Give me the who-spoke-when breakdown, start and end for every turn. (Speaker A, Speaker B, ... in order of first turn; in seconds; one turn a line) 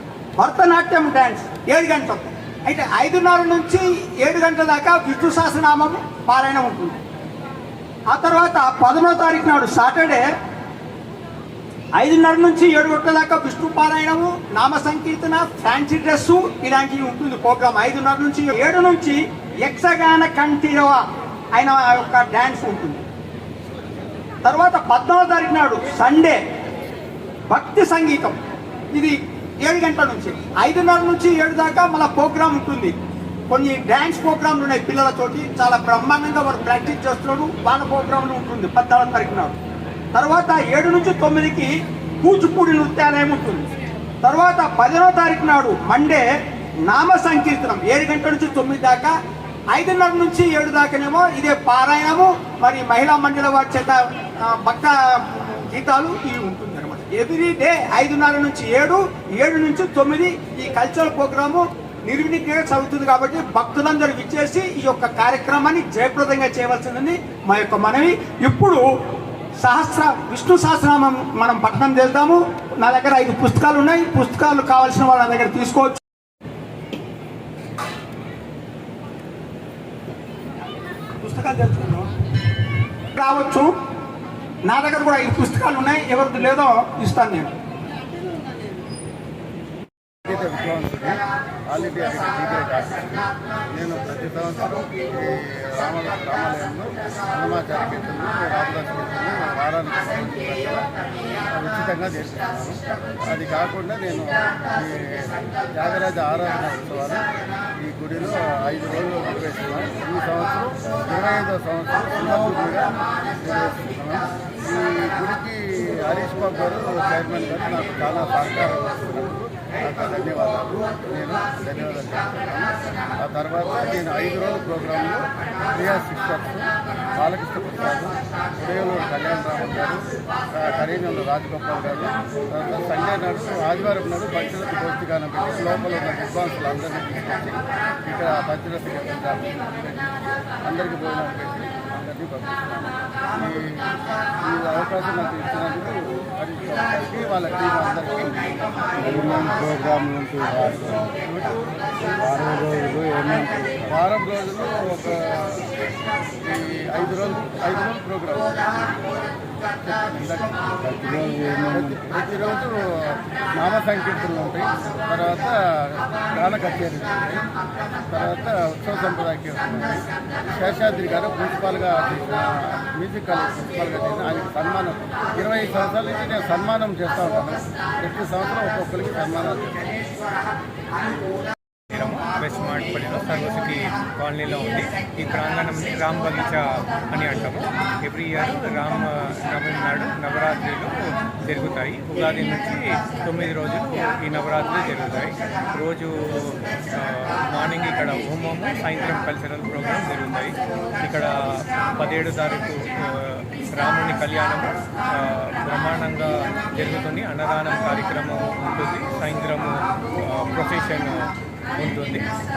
Speaker A: 0.4-7.0
Speaker A: 8.1-10.2
Speaker A: 12.0-21.0
Speaker A: 21.6-23.0
Speaker A: 24.4-26.4
Speaker A: 27.5-28.4
Speaker A: 28.9-32.9
Speaker A: 33.5-39.6
Speaker A: 40.1-43.7
Speaker A: 44.2-46.2
Speaker A: 46.9-49.1
Speaker A: 49.7-68.8
Speaker A: 69.6-76.0
Speaker A: 81.2-82.1
Speaker A: 83.2-83.7
Speaker A: 84.6-87.5
Speaker B: 90.2-100.9
Speaker B: 101.5-107.3
Speaker B: 107.8-130.0
Speaker B: 130.6-140.1
Speaker B: 140.6-149.6
Speaker C: 149.0-150.8
Speaker B: 150.6-151.5
Speaker C: 152.2-153.8
Speaker B: 153.9-155.7
Speaker B: 156.4-158.8
Speaker B: 159.8-160.7
Speaker C: 160.9-161.9
Speaker B: 161.7-167.5
Speaker B: 168.0-179.8
Speaker D: 181.9-212.3